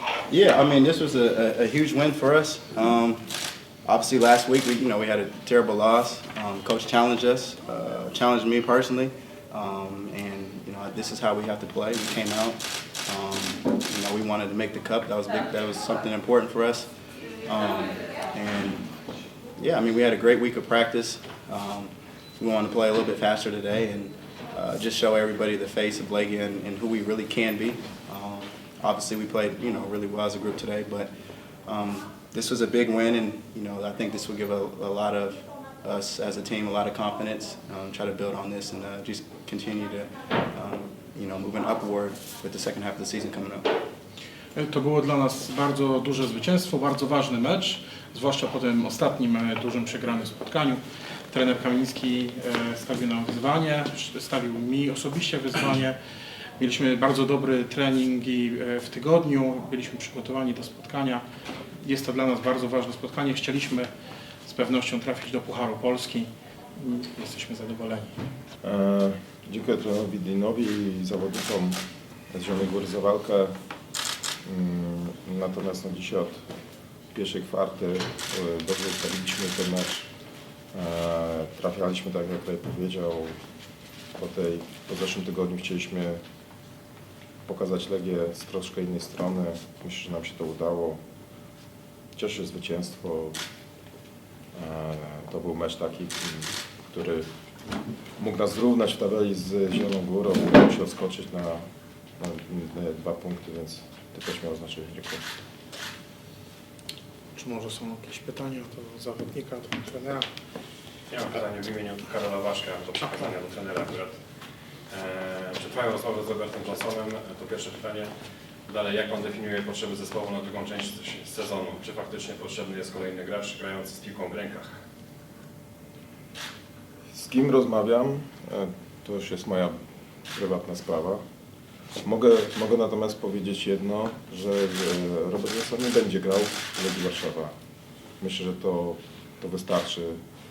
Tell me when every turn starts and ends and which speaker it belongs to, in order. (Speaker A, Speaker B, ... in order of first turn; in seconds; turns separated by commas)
Speaker A: 0.3-3.3, Speaker A: 3.8-16.9, Speaker A: 17.4-18.9, Speaker A: 19.6-31.1, Speaker A: 31.6-43.7, Speaker B: 44.5-56.0, Speaker B: 56.6-61.2, Speaker B: 61.8-63.9, Speaker B: 64.5-68.2, Speaker C: 68.6-73.5, Speaker C: 74.4-76.4, Speaker C: 77.1-80.1, Speaker C: 80.7-83.4, Speaker C: 84.2-86.2, Speaker C: 87.5-91.0, Speaker C: 92.2-93.4, Speaker C: 94.5-97.2, Speaker C: 98.2-101.6, Speaker C: 102.2-105.2, Speaker B: 107.3-110.3, Speaker D: 111.1-114.2, Speaker D: 114.9-118.1, Speaker D: 118.7-124.7, Speaker C: 127.1-129.7, Speaker C: 130.3-131.2, Speaker C: 132.0-137.5, Speaker C: 138.2-140.2